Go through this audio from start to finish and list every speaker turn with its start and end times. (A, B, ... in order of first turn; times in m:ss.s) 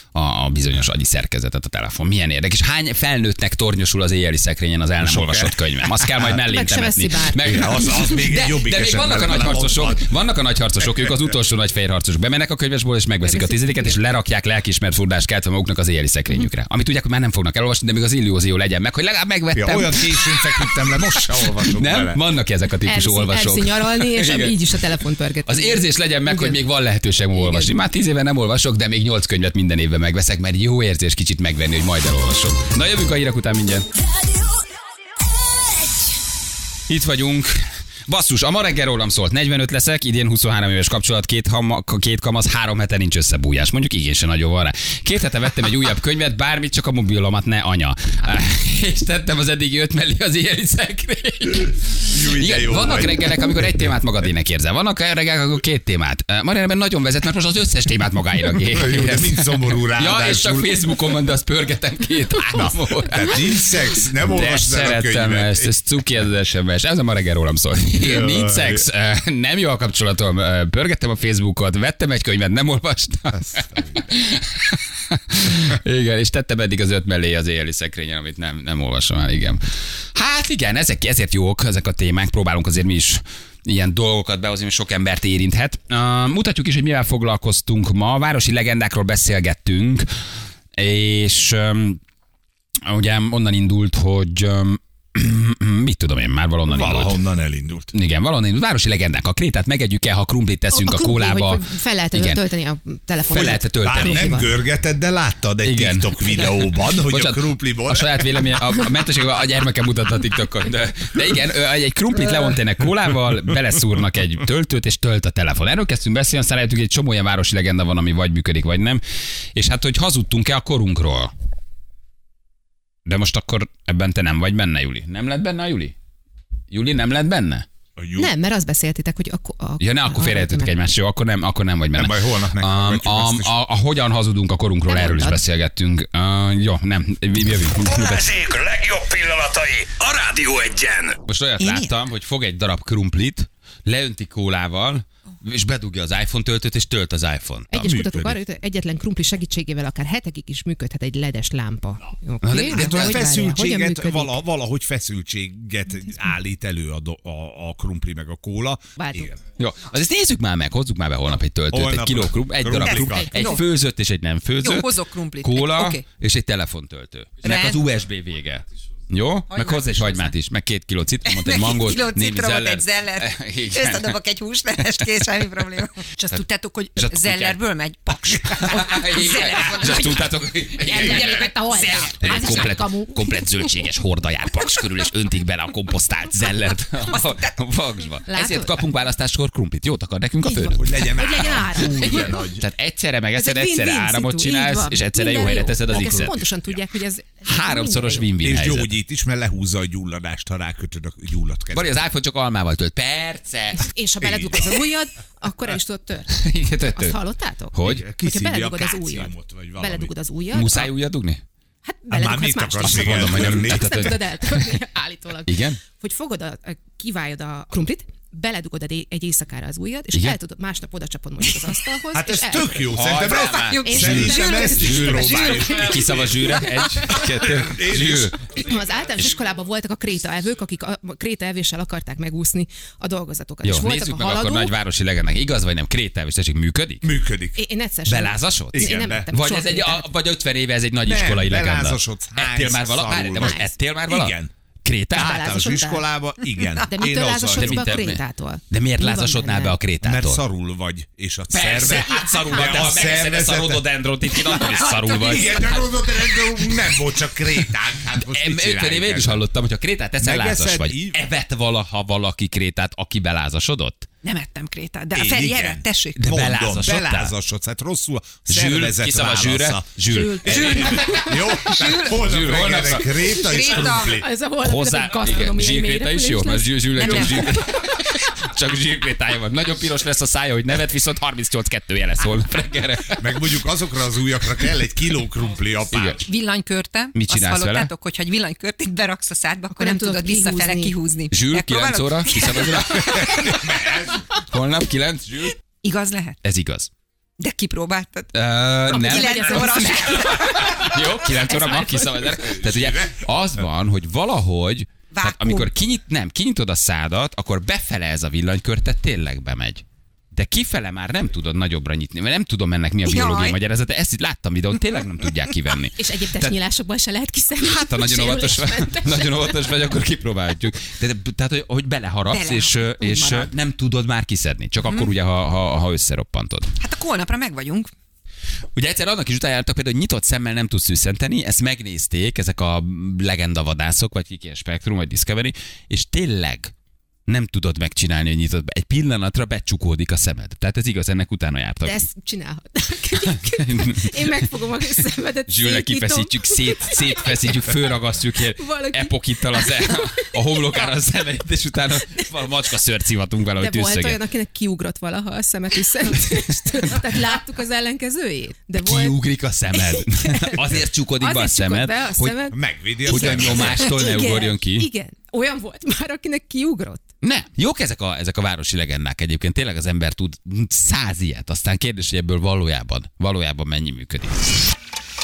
0:00.2-0:24.8 A
0:05.0-0:06.3 B
0:06.3-0:08.0 C
0:07.4-0:10.1 B
0:13.2-0:14.0 C
0:19.5-0:22.2 B
0:22.9-0:26.6 C
0:25.5-0:33.9 A
0:36.9-1:03.6 A
0:52.1-0:53.6 B
0:58.7-1:00.8 B
1:02.5-1:05.7 B
1:04.3-1:19.6 A
1:08.0-1:08.8 B
1:13.4-1:14.0 B
1:20.2-1:30.1 A
1:30.8-1:32.0 A
1:32.8-1:37.2 A
1:36.7-1:37.9 B
1:37.9-1:42.4 A
1:40.7-1:44.5 C
1:43.3-1:44.4 A
1:43.3-1:48.5 B
1:45.6-1:59.0 A
1:59.6-2:01.3 A
2:03.1-2:05.9 A
2:06.7-2:07.6 A
2:08.0-2:08.3 B
2:08.2-2:10.7 C
2:09.8-2:18.3 A
2:12.0-2:13.6 B
2:14.9-2:15.4 C
2:17.8-2:21.2 D
2:21.2-2:28.3 A
2:21.6-2:21.9 E
2:27.7-2:34.4 C
2:27.9-2:28.4 B
2:32.4-2:33.4 A
2:32.7-2:39.4 B
2:39.0-2:39.4 C
2:39.6-2:54.2 A
2:41.7-2:43.3 B
2:42.8-2:43.6 E
2:44.6-2:46.0 E
2:47.4-2:47.8 E
2:49.5-2:50.3 E
2:51.3-3:02.7 E
2:55.0-2:55.4 A
2:57.0-2:57.6 A
2:58.4-3:11.0 A
3:00.8-3:03.5 C
3:08.3-3:08.8 C
3:10.4-3:12.4 C
3:10.8-3:12.6 B
3:12.0-3:16.4 A
3:13.4-3:18.3 C
3:17.5-3:18.9 A
3:18.4-3:21.9 B
3:21.7-3:23.9 A
3:23.8-3:30.9 C
3:24.2-3:24.6 B
3:26.4-3:27.2 A
3:27.7-3:28.0 A
3:27.8-3:30.1 B
3:30.5-3:31.4 A
3:31.8-3:46.0 C
3:32.1-3:34.1 B
3:32.8-3:34.7 A
3:35.5-3:35.8 A
3:42.1-3:46.5 B
3:42.8-3:48.5 A
3:44.3-3:45.8 E
3:47.1-3:48.4 B
3:48.5-3:54.7 C
3:53.6-3:57.1 A
3:57.0-3:57.6 B
3:57.6-4:00.1 C
3:58.1-4:05.4 A
3:58.7-3:59.3 B
4:01.1-4:04.5 B
4:03.4-4:03.7 C
4:05.2-4:06.1 C
4:05.2-4:07.8 B
4:06.8-4:09.8 C
4:07.5-4:10.4 A
4:10.0-4:13.8 B
4:11.5-4:16.8 A
4:14.4-4:15.8 E
4:14.9-4:19.4 B
4:18.1-4:24.1 A
4:20.2-4:21.2 B
4:24.2-4:26.3 E
4:25.1-4:34.3 B
4:26.2-4:27.4 A
4:28.5-4:31.1 A
4:30.3-4:32.2 E
4:32.1-4:33.6 A
4:33.3-4:34.2 E
4:34.0-4:38.2 C
4:34.6-4:43.4 A
4:37.0-4:37.5 E
4:43.2-4:46.3 B
4:45.9-4:46.2 A
4:46.2-4:53.7 E
4:47.1-4:47.9 A
4:49.7-4:51.0 C
4:51.3-4:53.6 A
4:53.2-4:54.2 B
4:54.3-4:55.6 A
4:55.8-4:56.4 E
4:56.4-4:56.9 A
4:57.4-4:58.3 E
4:58.3-5:16.5 A
4:58.9-5:02.0 E
4:58.9-5:02.0 C
5:02.4-5:03.2 B
5:05.1-5:05.7 E
5:13.0-5:13.6 E
5:16.0-5:19.8 C
5:17.6-5:26.7 A
5:22.3-5:23.5 E
5:26.8-5:27.9 E
5:28.8-5:36.7 A
5:37.3-5:42.0 A
5:41.8-5:47.7 C
5:43.5-5:44.3 A
5:45.5-5:54.2 A
5:48.6-5:50.9 C
5:53.6-5:59.2 C
5:58.8-6:02.5 A
5:59.7-6:07.0 C
6:02.5-6:04.0 B
6:03.1-6:04.9 A
6:07.2-6:14.7 A